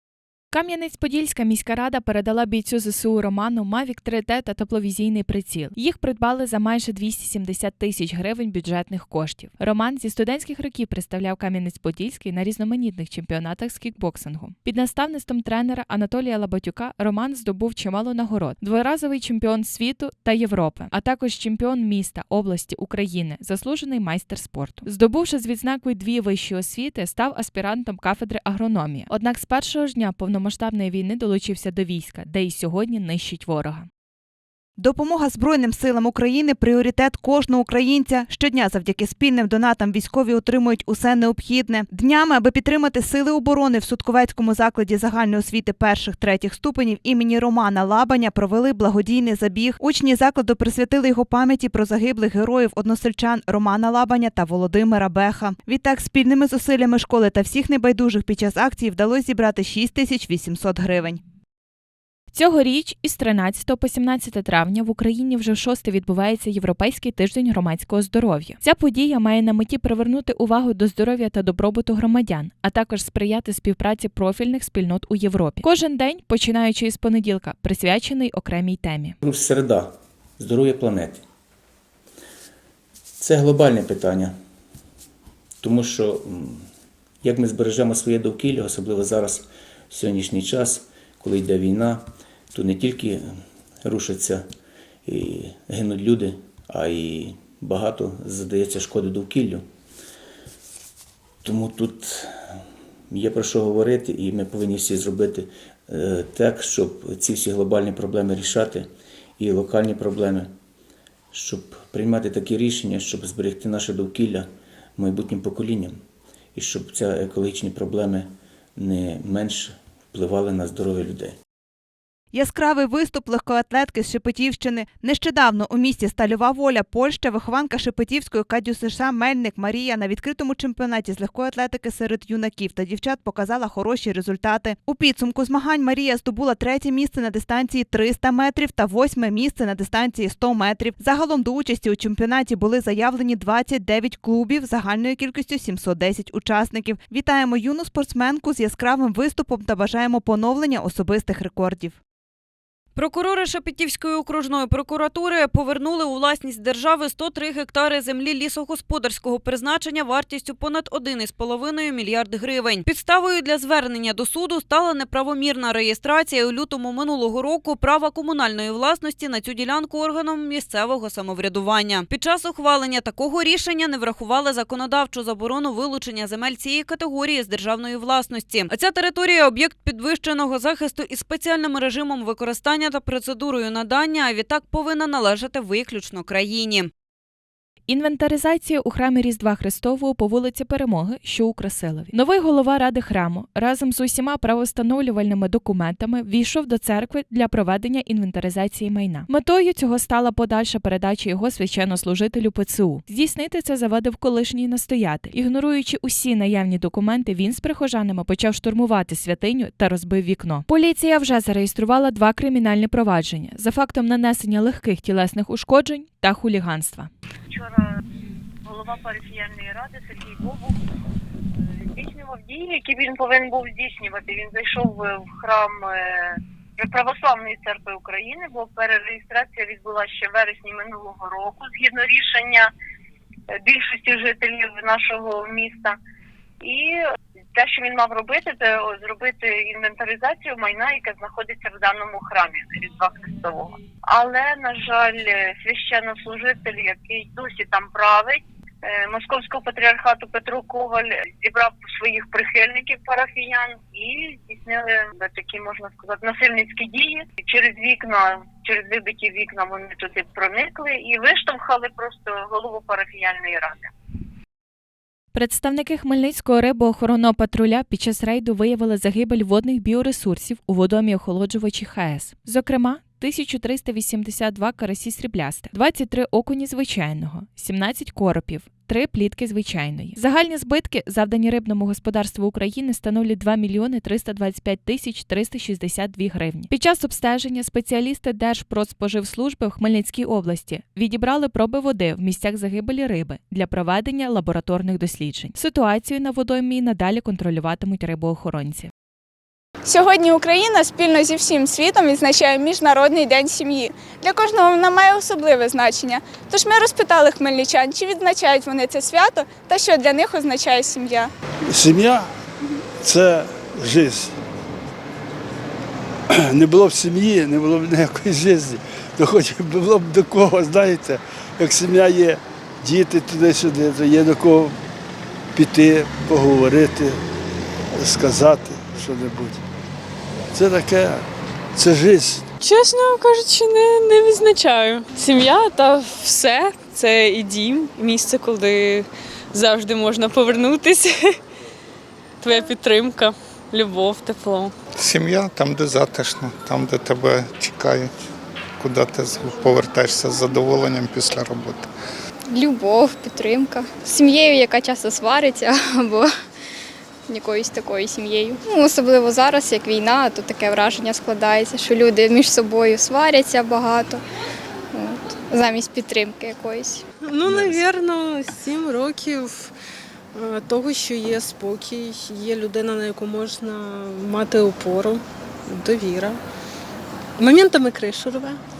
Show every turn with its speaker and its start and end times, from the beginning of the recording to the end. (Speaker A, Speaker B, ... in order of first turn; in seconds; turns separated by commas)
Speaker A: 0.5-33.9, Speaker B: 34.8-61.2, Speaker A: 62.3-79.2, Speaker C: 79.2-81.2, Speaker C: 83.2-84.3, Speaker C: 85.6-86.7, Speaker C: 87.2-93.2, Speaker C: 93.8-94.5, Speaker C: 95.1-99.6, Speaker C: 101.4-102.6, Speaker C: 103.1-108.9, Speaker C: 109.4-110.5, Speaker C: 111.3-116.0, Speaker C: 116.5-121.3, Speaker B: 122.3-152.0, Speaker D: 152.9-186.9, Speaker A: 187.9-217.1, Speaker E: 217.5-217.8, Speaker E: 218.7-220.8, Speaker E: 221.9-232.7, Speaker E: 233.7-235.9, Speaker E: 236.6-237.0, Speaker E: 237.6-263.9, Speaker A: 265.3-298.9, Speaker F: 299.9-311.3, Speaker G: 311.7-312.3, Speaker G: 313.0-314.3, Speaker G: 316.4-324.8, Speaker G: 325.6-327.2, Speaker G: 327.9-329.6, Speaker G: 330.5-331.2, Speaker G: 331.8-332.5, Speaker H: 332.6-341.4, Speaker H: 342.4-344.7, Speaker I: 345.0-348.1, Speaker I: 348.8-351.9, Speaker J: 352.5-356.3, Speaker J: 357.3-364.2, Speaker J: 364.9-367.0, Speaker K: 367.2-369.7, Speaker K: 370.3-376.4, Speaker K: 377.4-378.6